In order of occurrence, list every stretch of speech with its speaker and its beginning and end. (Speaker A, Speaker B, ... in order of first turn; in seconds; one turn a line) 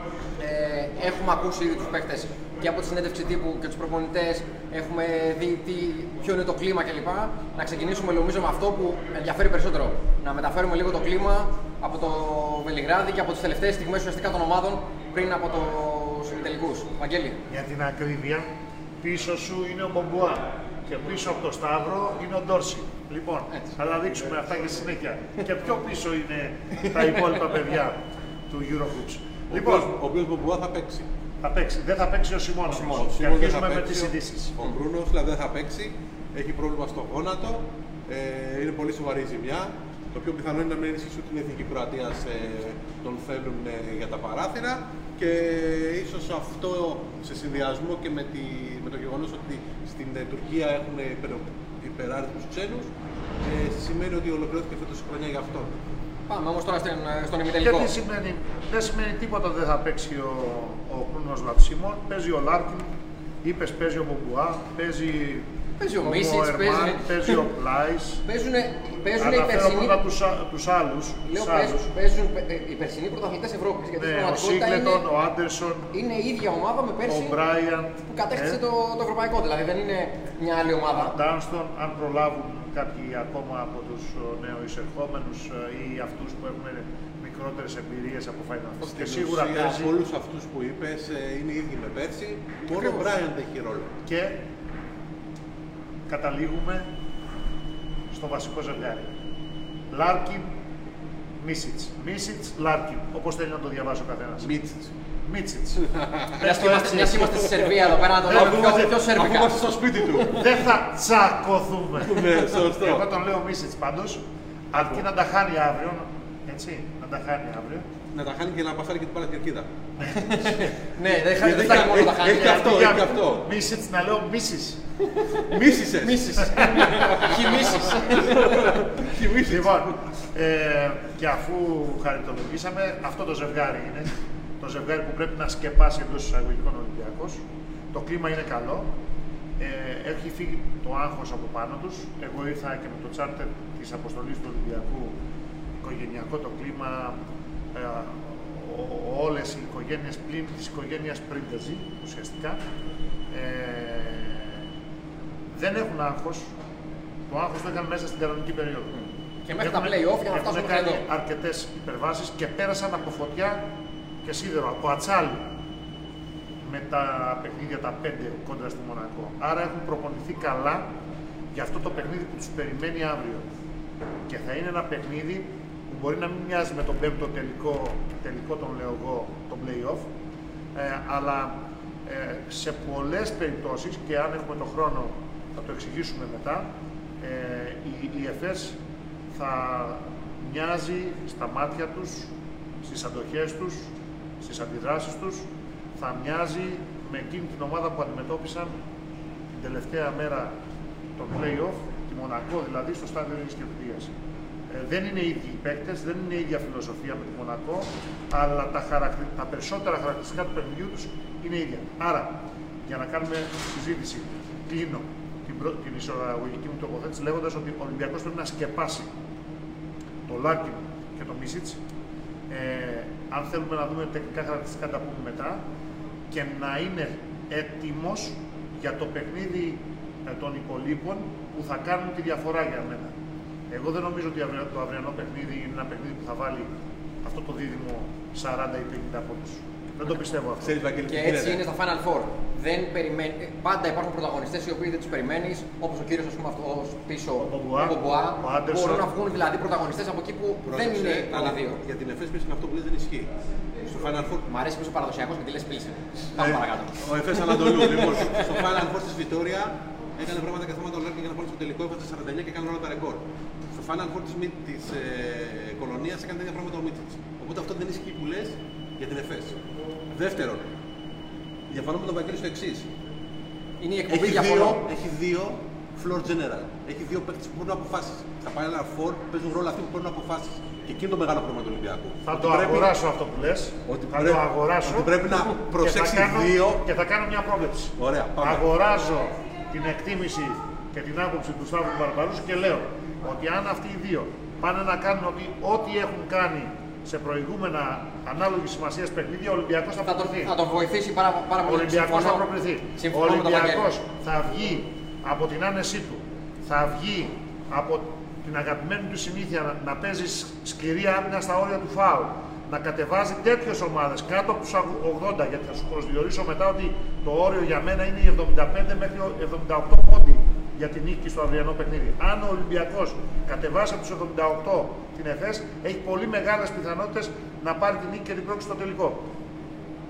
Speaker A: 0.4-17.4
Speaker B: 17.5-18.5
Speaker B: 19.0-28.0
Speaker B: 28.5-29.9
Speaker C: 29.5-31.1
Speaker B: 31.4-34.5
Speaker A: 32.7-33.1
Speaker C: 32.9-52.9
Speaker C: 53.4-55.8
Speaker A: 56.3-57.9
Speaker B: 57.6-62.9
Speaker B: 63.4-65.5
Speaker A: 65.8-67.4
Speaker B: 66.0-68.2
Speaker A: 68.2-70.0
Speaker B: 69.2-71.9
Speaker A: 71.3-75.0
Speaker B: 74.0-75.9
Speaker A: 75.9-77.4
Speaker B: 77.0-78.6
Speaker A: 78.0-81.1
Speaker B: 80.9-89.9
Speaker C: 88.8-93.9
Speaker A: 92.7-93.1
Speaker B: 94.0-94.4
Speaker B: 96.1-96.8
Speaker B: 98.1-99.1
Speaker B: 99.9-100.5
Speaker B: 101.4-104.5
Speaker C: 104.4-104.9
Speaker B: 105.2-105.8
Speaker C: 105.8-106.4
Speaker B: 106.4-107.3
Speaker A: 106.4-109.6
Speaker C: 107.2-107.7
Speaker B: 108.2-109.0
Speaker C: 108.9-110.5
Speaker B: 110.3-114.2
Speaker C: 112.0-113.0
Speaker B: 114.7-117.8
Speaker C: 118.1-119.7
Speaker B: 120.0-120.6
Speaker A: 120.1-122.7
Speaker C: 121.3-123.5
Speaker B: 121.9-124.8
Speaker A: 125.2-128.8
Speaker C: 125.5-129.9
Speaker B: 129.4-134.1
Speaker B: 134.6-137.4
Speaker B: 137.9-138.9
Speaker B: 139.6-145.1
Speaker B: 145.8-147.2
Speaker B: 147.7-152.6
Speaker B: 153.3-154.6
Speaker B: 155.5-156.5
Speaker B: 157.3-159.0
Speaker A: 159.4-161.0
Speaker B: 159.5-163.6
Speaker B: 164.2-165.4
Speaker B: 166.6-170.9
Speaker B: 171.5-173.4
Speaker B: 174.3-180.0
Speaker B: 180.7-181.5
Speaker B: 182.1-186.7
Speaker B: 187.2-188.8
Speaker B: 189.3-192.3
Speaker B: 192.8-195.4
Speaker B: 196.0-198.7
Speaker B: 199.5-200.5
Speaker B: 201.2-204.1
Speaker B: 204.7-219.1
Speaker B: 220.3-221.8
Speaker B: 222.5-225.6
Speaker B: 226.3-233.1
Speaker B: 233.7-236.7
Speaker B: 237.2-240.7
Speaker C: 240.6-241.6
Speaker A: 241.1-251.8
Speaker B: 247.4-249.0
Speaker C: 250.6-253.3
Speaker C: 253.9-254.4
Speaker A: 254.5-257.0
Speaker C: 256.4-269.6
Speaker A: 257.5-258.0
Speaker C: 270.1-270.6
Speaker C: 271.7-272.9
Speaker A: 273.8-274.8
Speaker C: 274.1-282.9
Speaker B: 282.3-285.1
Speaker C: 283.9-286.8
Speaker B: 285.7-300.5
Speaker C: 288.0-288.6
Speaker A: 300.1-302.4
Speaker B: 301.6-329.3
Speaker A: 303.0-303.9